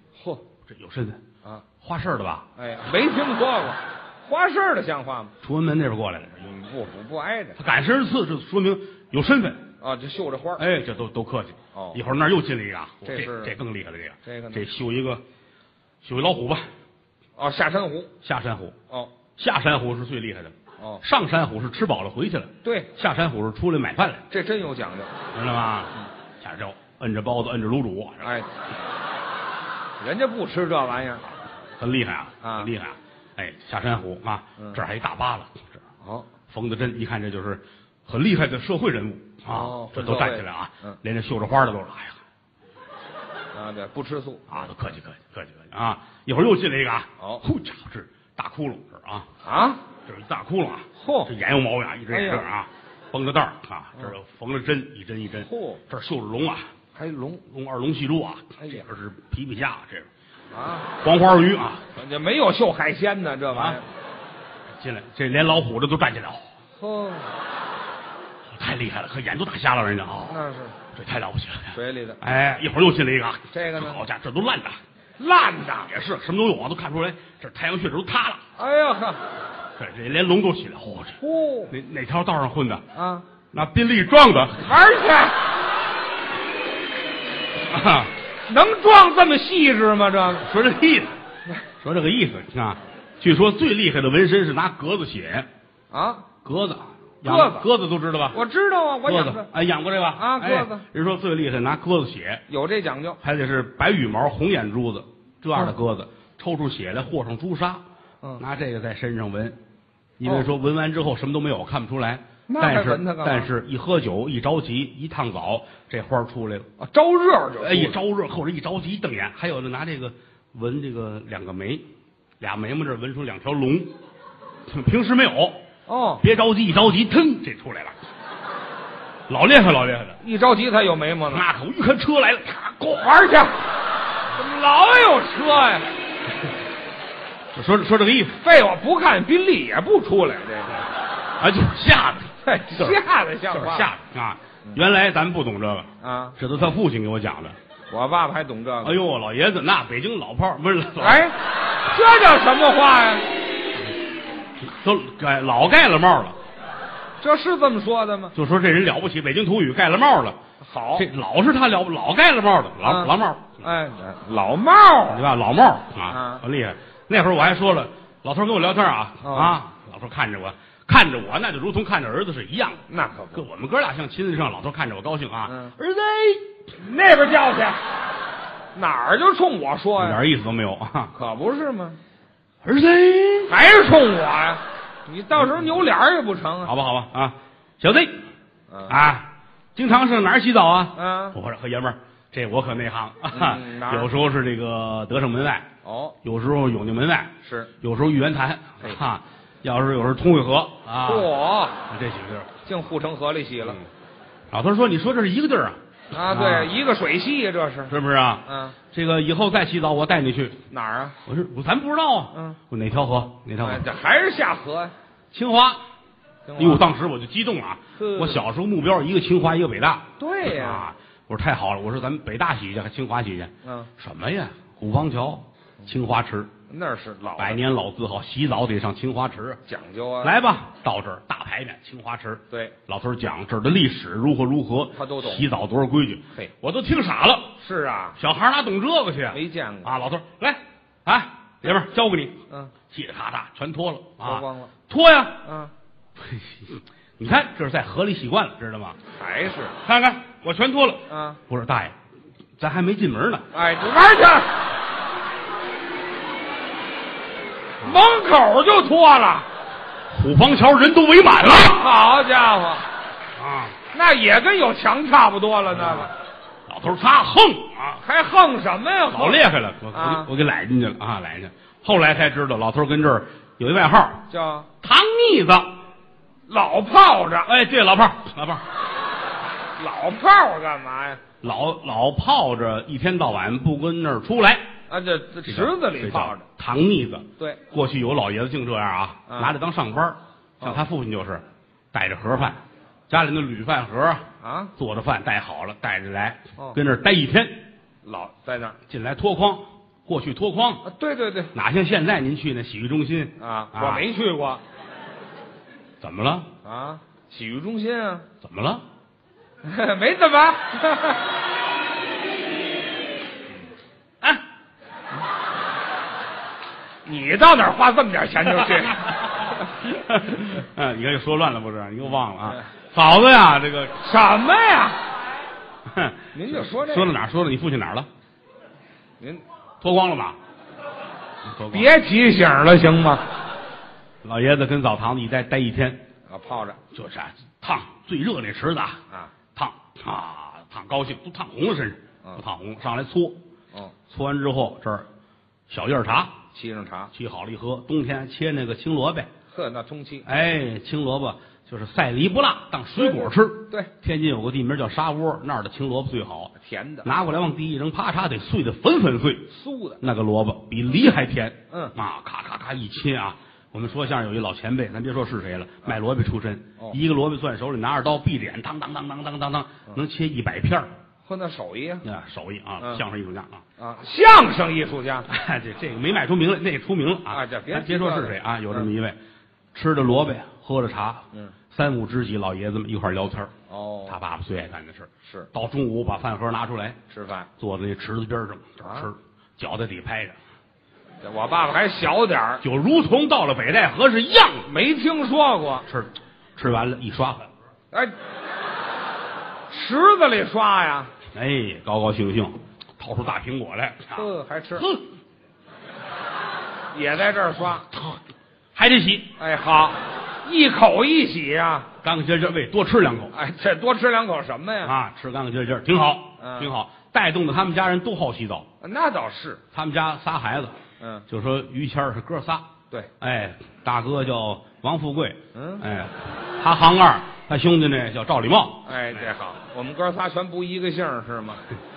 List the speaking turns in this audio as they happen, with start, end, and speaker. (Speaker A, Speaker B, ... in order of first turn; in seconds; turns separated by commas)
Speaker A: 0.1-0.4, Speaker B: 0.7-1.2, Speaker B: 1.8-2.5, Speaker A: 2.6-5.3, Speaker B: 5.4-6.5, Speaker A: 6.4-7.6, Speaker B: 7.6-9.6, Speaker A: 9.8-10.6, Speaker B: 10.6-15.2, Speaker A: 11.7-12.0, Speaker A: 13.0-13.5, Speaker A: 14.2-14.6, Speaker B: 16.0-16.7, Speaker A: 17.4-18.1, Speaker B: 18.2-18.8, Speaker B: 19.4-24.2, Speaker A: 22.6-22.9, Speaker A: 24.3-25.1, Speaker B: 25.3-28.3, Speaker A: 28.2-28.5, Speaker A: 30.0-31.2, Speaker B: 31.8-35.7, Speaker A: 32.4-32.7, Speaker A: 36.0-36.3, Speaker B: 36.5-42.2, Speaker A: 39.5-41.0, Speaker A: 43.5-44.7, Speaker B: 44.5-49.3, Speaker A: 49.4-49.8, Speaker B: 50.1-56.7, Speaker A: 51.0-51.3, Speaker A: 52.1-52.4, Speaker A: 55.4-55.8, Speaker A: 56.9-57.4, Speaker B: 57.5-60.1, Speaker A: 58.6-58.8, Speaker A: 60.5-60.9, Speaker B: 61.0-61.8, Speaker A: 61.9-63.8, Speaker B: 63.5-63.8, Speaker B: 64.8-66.5, Speaker A: 66.8-67.3, Speaker B: 68.5-70.4, Speaker A: 70.3-70.8, Speaker B: 70.9-74.8, Speaker A: 71.7-72.2, Speaker A: 73.5-74.0, Speaker A: 75.2-75.9, Speaker B: 75.8-78.4, Speaker A: 78.6-79.2, Speaker B: 79.8-81.2, Speaker A: 81.2-81.7, Speaker B: 81.7-82.8, Speaker A: 82.9-83.2, Speaker B: 83.5-84.7, Speaker A: 84.6-85.4, Speaker B: 87.6-88.1, Speaker A: 88.5-90.5, Speaker B: 90.4-91.1, Speaker B: 91.8-95.5, Speaker A: 95.9-96.2, Speaker B: 96.4-98.4, Speaker A: 97.2-97.7, Speaker A: 98.3-99.5, Speaker B: 99.0-102.4, Speaker A: 100.2-100.8, Speaker A: 102.5-103.2, Speaker B: 103.2-107.8, Speaker B: 108.4-109.6, Speaker B: 110.2-116.7, Speaker A: 112.5-113.5, Speaker A: 116.8-118.0, Speaker B: 117.6-121.8, Speaker B: 122.4-124.0, Speaker B: 124.7-125.6, Speaker A: 125.9-126.2, Speaker B: 126.2-128.0, Speaker B: 129.3-130.2, Speaker A: 130.2-131.4, Speaker B: 131.3-132.8, Speaker A: 132.7-133.6, Speaker A: 134.3-135.9, Speaker B: 137.5-138.4, Speaker A: 138.3-140.9, Speaker B: 141.4-147.6, Speaker A: 142.4-143.9, Speaker A: 146.0-146.4, Speaker A: 147.9-149.0, Speaker B: 148.8-151.2, Speaker A: 151.0-153.3, Speaker B: 154.6-156.4, Speaker A: 157.2-158.3, Speaker B: 158.3-160.4, Speaker A: 160.6-161.1, Speaker B: 160.9-163.6, Speaker A: 162.8-165.2, Speaker B: 165.1-172.8, Speaker A: 166.1-166.4, Speaker A: 169.2-169.6, Speaker A: 172.9-173.4, Speaker B: 173.3-176.5, Speaker A: 175.5-175.7, Speaker A: 176.8-177.8, Speaker A: 178.7-180.2, Speaker B: 180.0-181.1, Speaker A: 181.1-182.0, Speaker B: 182.6-183.5, Speaker A: 183.5-186.7, Speaker B: 186.6-188.2, Speaker A: 188.7-188.9, Speaker B: 188.9-195.7, Speaker A: 190.9-191.4, Speaker A: 193.3-194.1, Speaker A: 195.8-196.2, Speaker B: 196.2-201.3, Speaker A: 197.4-197.7, Speaker A: 201.0-201.8, Speaker B: 201.9-202.5, Speaker A: 202.6-203.8, Speaker B: 204.5-205.8, Speaker A: 206.1-207.9, Speaker B: 206.3-206.7, Speaker B: 207.9-210.6, Speaker A: 208.4-208.8, Speaker A: 210.7-211.2, Speaker B: 211.2-213.8, Speaker A: 212.3-212.6, Speaker A: 213.6-214.9, Speaker B: 215.3-215.8, Speaker A: 216.5-216.9, Speaker B: 216.6-226.5, Speaker A: 217.9-218.4, Speaker A: 220.2-220.8, Speaker A: 223.6-223.9, Speaker A: 226.7-227.6, Speaker B: 227.4-229.6, Speaker A: 229.7-230.3, Speaker B: 230.2-237.5, Speaker A: 234.9-235.4, Speaker A: 237.6-238.2, Speaker B: 238.2-242.4, Speaker A: 239.3-239.9, Speaker B: 242.9-245.4, Speaker A: 244.2-244.7, Speaker A: 245.4-245.7, Speaker B: 246.2-249.0, Speaker A: 249.1-249.7, Speaker B: 249.8-251.9, Speaker A: 251.1-251.4, Speaker B: 252.6-253.5, Speaker A: 253.5-254.6, Speaker A: 257.8-259.5, Speaker B: 260.1-261.8, Speaker A: 261.5-262.9, Speaker B: 263.4-263.8, Speaker A: 263.9-266.1, Speaker B: 265.8-266.1, Speaker B: 266.7-268.0, Speaker A: 268.0-270.3, Speaker B: 269.1-274.2, Speaker A: 274.3-274.7, Speaker B: 274.8-275.8, Speaker A: 276.5-277.5, Speaker B: 277.4-278.6, Speaker A: 279.8-281.2, Speaker B: 281.4-284.7, Speaker A: 284.9-286.4, Speaker B: 285.5-294.2, Speaker A: 289.3-289.5, Speaker A: 294.4-294.7, Speaker B: 294.8-297.6, Speaker A: 298.0-298.8, Speaker B: 298.9-300.9, Speaker A: 300.8-301.5, Speaker B: 301.5-304.0, Speaker A: 303.4-304.6, Speaker B: 306.0-306.5, Speaker A: 306.6-308.3, Speaker B: 308.4-308.8, Speaker A: 309.6-311.3, Speaker A: 317.1-319.7, Speaker B: 319.9-323.9, Speaker A: 324.0-325.0, Speaker B: 325.9-328.1, Speaker A: 326.3-327.1, Speaker B: 329.8-330.4, Speaker B: 331.4-331.9, Speaker A: 331.7-333.3, Speaker B: 334.2-336.0, Speaker A: 336.3-336.8, Speaker B: 336.9-339.0, Speaker B: 339.5-343.4, Speaker B: 344.1-345.1, Speaker B: 345.7-346.4, Speaker A: 346.5-347.1, Speaker B: 347.1-349.3, Speaker A: 349.5-350.2, Speaker B: 350.2-356.5, Speaker A: 352.9-353.9, Speaker A: 356.6-357.1, Speaker B: 357.0-359.4, Speaker A: 359.5-360.0, Speaker B: 360.0-370.9, Speaker A: 371.2-372.0, Speaker B: 372.0-373.6, Speaker A: 373.8-375.3, Speaker B: 375.3-379.2, Speaker A: 377.3-378.9, Speaker B: 379.7-383.5, Speaker A: 383.7-384.2, Speaker B: 384.1-387.0, Speaker A: 385.2-385.5, Speaker A: 387.1-387.5, Speaker B: 387.6-390.4, Speaker A: 388.8-389.1, Speaker A: 391.2-392.6, Speaker B: 392.6-394.6, Speaker A: 394.6-395.9, Speaker B: 395.9-397.5, Speaker A: 399.7-401.1, Speaker B: 401.3-404.2, Speaker A: 404.1-404.9, Speaker B: 404.8-405.0, Speaker A: 406.9-407.9, Speaker B: 407.9-408.2, Speaker B: 408.7-409.3, Speaker A: 409.4-411.9, Speaker B: 412.0-413.3, Speaker A: 413.3-414.9, Speaker B: 414.8-418.7, Speaker A: 416.4-416.7, Speaker A: 418.8-419.6, Speaker B: 419.7-420.8, Speaker A: 421.0-421.3, Speaker B: 421.3-422.7, Speaker B: 423.2-429.2, Speaker A: 425.5-425.8, Speaker A: 428.9-431.6